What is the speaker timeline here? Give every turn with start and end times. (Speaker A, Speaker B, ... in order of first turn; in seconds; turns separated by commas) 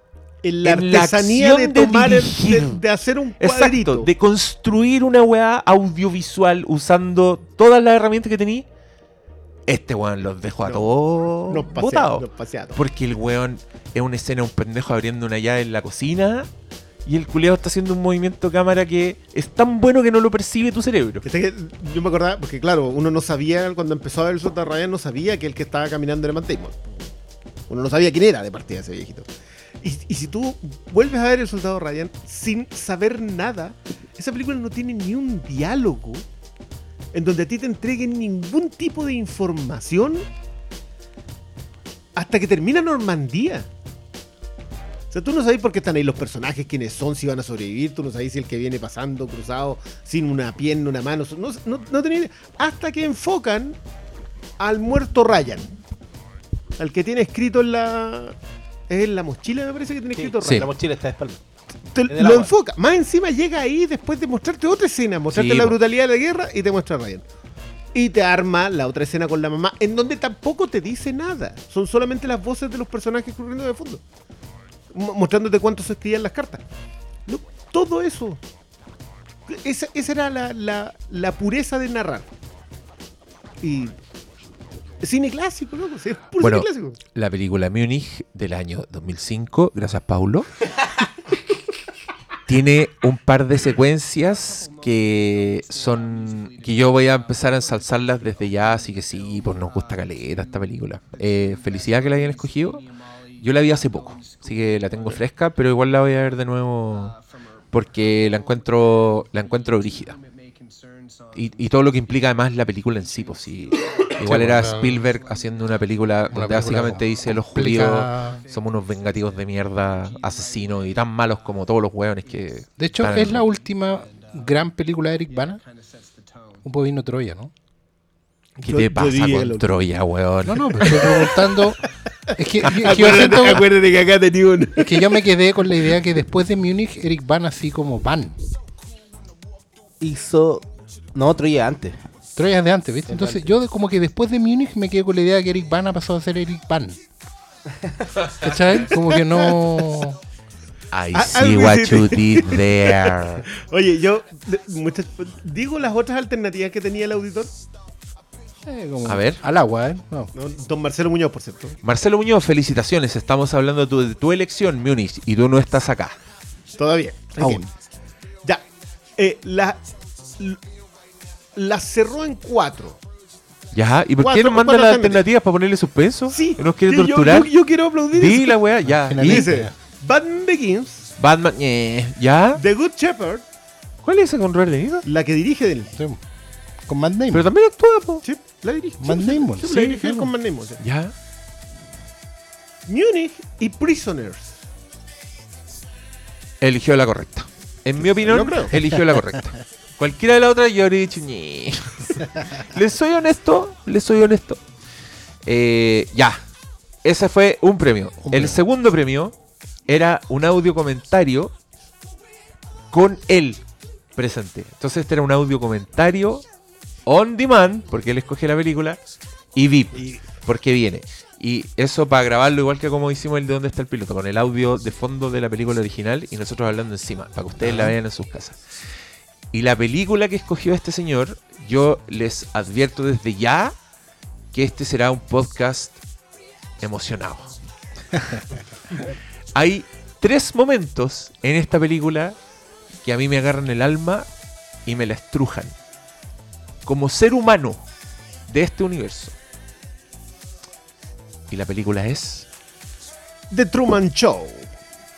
Speaker A: 0.4-4.1, Speaker B: 0.6-2.8, Speaker B: 3.4-8.7, Speaker B: 9.7-16.5, Speaker A: 10.7-10.9, Speaker A: 11.5-12.8, Speaker B: 17.1-21.3, Speaker A: 21.2-26.8, Speaker A: 27.7-29.3, Speaker A: 29.8-36.2, Speaker A: 37.1-40.2, Speaker A: 42.1-43.7, Speaker A: 45.1-53.8, Speaker A: 54.6-55.7, Speaker A: 56.8-58.4, Speaker A: 58.9-60.7, Speaker C: 60.2-61.4, Speaker A: 61.9-67.2, Speaker C: 62.1-62.5, Speaker B: 65.3-65.8, Speaker A: 67.9-74.0, Speaker A: 74.9-76.6, Speaker A: 77.3-78.4, Speaker A: 79.5-82.3, Speaker A: 83.6-84.0, Speaker A: 85.0-87.0, Speaker B: 86.4-90.5, Speaker B: 92.5-107.2, Speaker B: 107.7-110.2, Speaker B: 111.3-123.4, Speaker D: 114.2-115.0, Speaker D: 116.3-118.4, Speaker D: 122.8-125.6, Speaker D: 126.6-127.5, Speaker B: 128.6-131.1, Speaker A: 128.7-129.8, Speaker D: 130.4-133.7, Speaker A: 130.8-131.4, Speaker B: 132.7-133.6, Speaker A: 132.8-135.2, Speaker D: 134.8-138.4, Speaker C: 140.0-142.0, Speaker D: 142.4-147.0, Speaker C: 143.1-143.5, Speaker D: 148.4-150.2, Speaker A: 149.0-149.7, Speaker B: 150.9-153.5, Speaker A: 151.1-157.5, Speaker D: 158.7-160.3, Speaker B: 159.1-159.4, Speaker A: 160.3-161.8, Speaker B: 161.8-166.1, Speaker A: 166.8-167.7, Speaker D: 167.4-167.7, Speaker A: 169.2-169.8, Speaker A: 171.6-173.0, Speaker B: 173.7-177.5, Speaker A: 174.2-175.3, Speaker A: 176.3-178.6, Speaker B: 178.1-179.5, Speaker D: 178.9-179.7, Speaker A: 179.2-181.1, Speaker B: 181.2-182.6, Speaker A: 182.6-183.4, Speaker B: 184.0-185.1, Speaker A: 185.1-185.9, Speaker D: 185.9-186.2, Speaker D: 186.9-187.5, Speaker B: 187.3-188.2, Speaker A: 188.2-190.8, Speaker D: 189.0-190.3, Speaker B: 190.8-191.1, Speaker A: 192.9-194.5, Speaker B: 196.6-204.6, Speaker A: 198.0-198.7, Speaker B: 205.5-206.4, Speaker B: 207.0-209.3, Speaker D: 208.2-208.6, Speaker B: 209.9-211.5, Speaker B: 212.9-213.6, Speaker B: 214.2-216.4, Speaker B: 217.1-219.0, Speaker B: 219.6-228.6, Speaker A: 220.0-220.2, Speaker D: 227.6-227.9, Speaker B: 229.5-233.8, Speaker B: 234.5-236.0, Speaker B: 236.8-237.6, Speaker B: 239.6-242.4, Speaker B: 243.0-244.3, Speaker B: 244.9-245.7, Speaker B: 246.8-247.8, Speaker B: 248.5-249.3, Speaker B: 251.5-252.5, Speaker A: 253.5-254.7